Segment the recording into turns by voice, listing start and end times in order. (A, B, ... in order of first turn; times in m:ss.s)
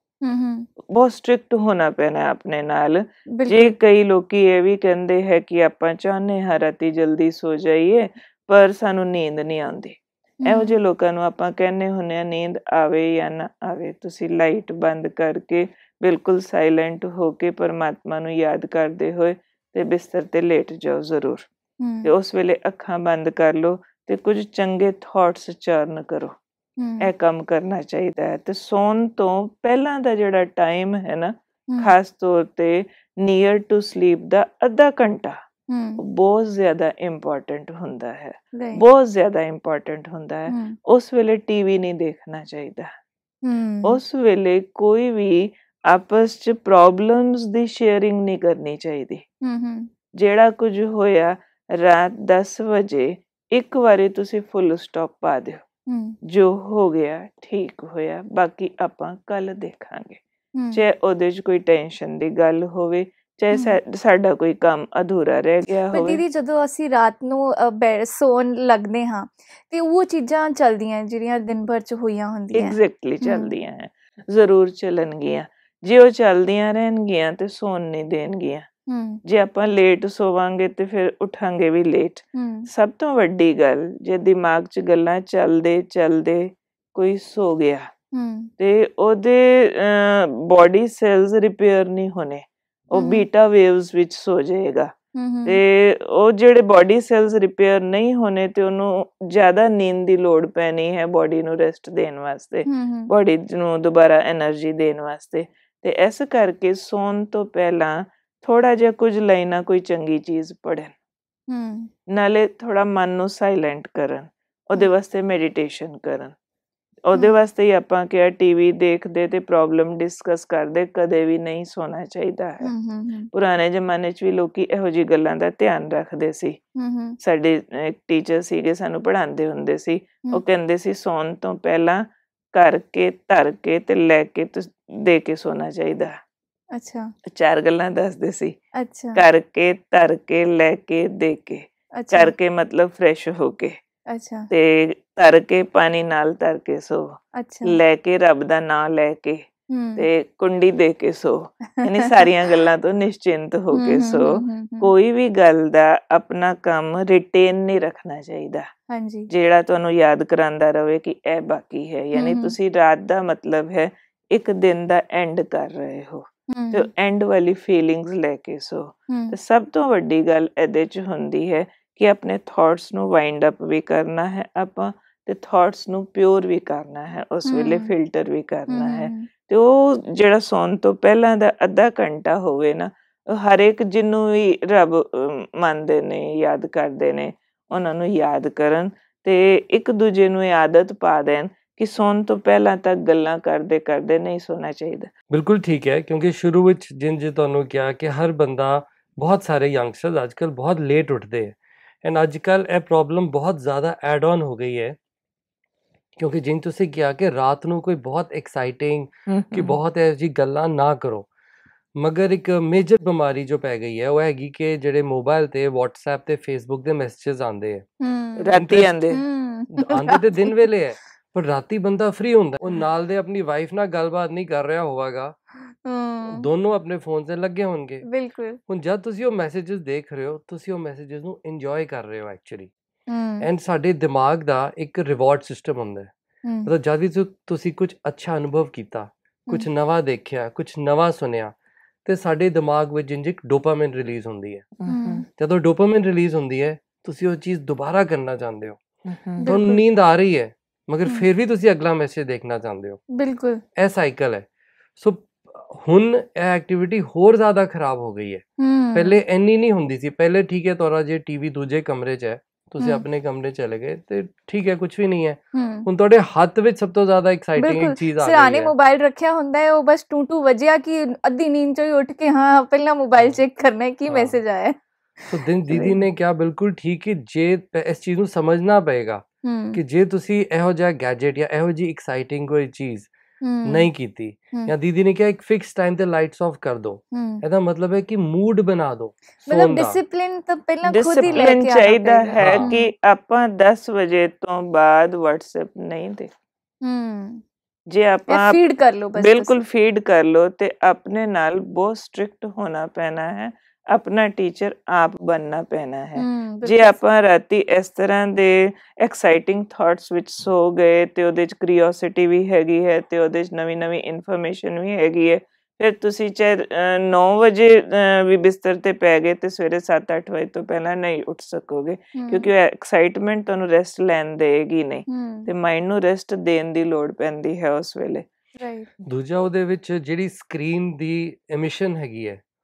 0:00.2-0:00.7 A
0:00.9-0:21.5 B
0:03.3-0:03.7 A
0:10.4-0:10.8 A
0:21.8-0:22.1 A
0:22.0-0:26.3 B
0:26.8-0:27.1 A
0:27.0-0:35.4 B
0:35.7-0:36.0 A
0:36.0-0:42.9 B
0:38.5-0:38.8 A
0:40.5-0:40.8 A
0:43.4-0:44.0 A
0:43.8-0:49.2 B
0:49.4-0:49.9 A
0:50.2-0:55.6 B
0:55.9-0:56.1 A
0:56.3-1:00.2 B
1:00.6-1:00.8 A
1:00.7-1:06.2 B
1:03.5-1:03.8 A
1:05.9-1:13.5 A
1:12.5-1:18.7 B
1:18.9-1:19.2 A
1:19.2-1:27.9 B
1:22.3-1:22.7 A
1:28.1-1:28.5 A
1:28.6-1:34.9 B
1:32.9-1:33.2 A
1:35.1-1:35.6 A
1:35.4-1:50.9 B
1:42.6-1:43.1 A
1:51.5-1:51.9 A
1:52.1-1:56.3 B
1:57.0-2:02.7 B
2:02.6-2:03.3 A
2:03.3-2:06.6 B
2:06.8-2:07.2 A
2:07.2-2:16.2 B
2:16.7-2:17.1 A
2:17.2-2:18.6 B
2:18.7-2:19.2 A
2:19.1-2:23.7 B
2:21.9-2:22.3 A
2:24.1-2:24.5 A
2:24.5-2:27.1 B
2:27.3-2:27.8 A
2:27.6-2:29.4 B
2:29.7-2:30.1 A
2:30.0-2:38.6 B
2:31.8-2:32.2 A
2:33.7-2:34.9 A
2:38.9-2:39.3 A
2:39.3-3:15.1 B
2:42.1-2:42.5 A
2:46.5-2:46.9 A
2:49.1-2:49.4 A
2:57.4-2:57.9 A
2:58.7-2:59.3 A
3:15.3-3:25.0 C
3:26.2-3:31.3 C
3:29.3-3:29.8 B
3:32.0-3:37.8 C
3:38.0-3:38.5 A
3:38.4-3:39.2 B
3:38.6-3:38.9 C
3:39.1-3:40.7 A
3:39.8-3:45.4 C
3:45.6-3:46.5 A
3:46.2-3:48.0 C
3:48.0-3:48.6 A
3:48.7-3:52.7 C
3:53.1-3:53.5 A
3:53.4-3:56.1 C
3:56.4-3:56.7 A
3:56.6-4:04.7 C
4:04.8-4:05.2 B
4:04.9-4:05.2 A
4:05.4-4:08.8 C
4:09.1-4:09.4 B
4:09.4-4:09.8 A
4:09.4-4:13.0 C
4:13.1-4:13.6 A
4:13.8-4:28.7 C
4:18.6-4:19.2 A
4:25.5-4:25.9 A
4:27.6-4:36.0 A
4:34.1-4:34.4 C
4:35.3-4:43.1 C
4:39.4-4:39.8 A
4:43.4-4:43.9 A
4:43.6-4:50.0 C
4:47.1-4:47.4 A
4:49.4-4:52.9 A
4:50.8-4:56.3 B
4:52.4-4:52.7 C
4:56.8-4:57.4 A
4:57.9-4:58.6 B
4:58.3-4:59.6 A
4:59.2-5:28.2 B
5:06.2-5:07.0 A
5:22.2-5:22.5 A
5:25.1-5:25.5 A
5:28.6-5:28.9 A
5:29.0-5:32.4 C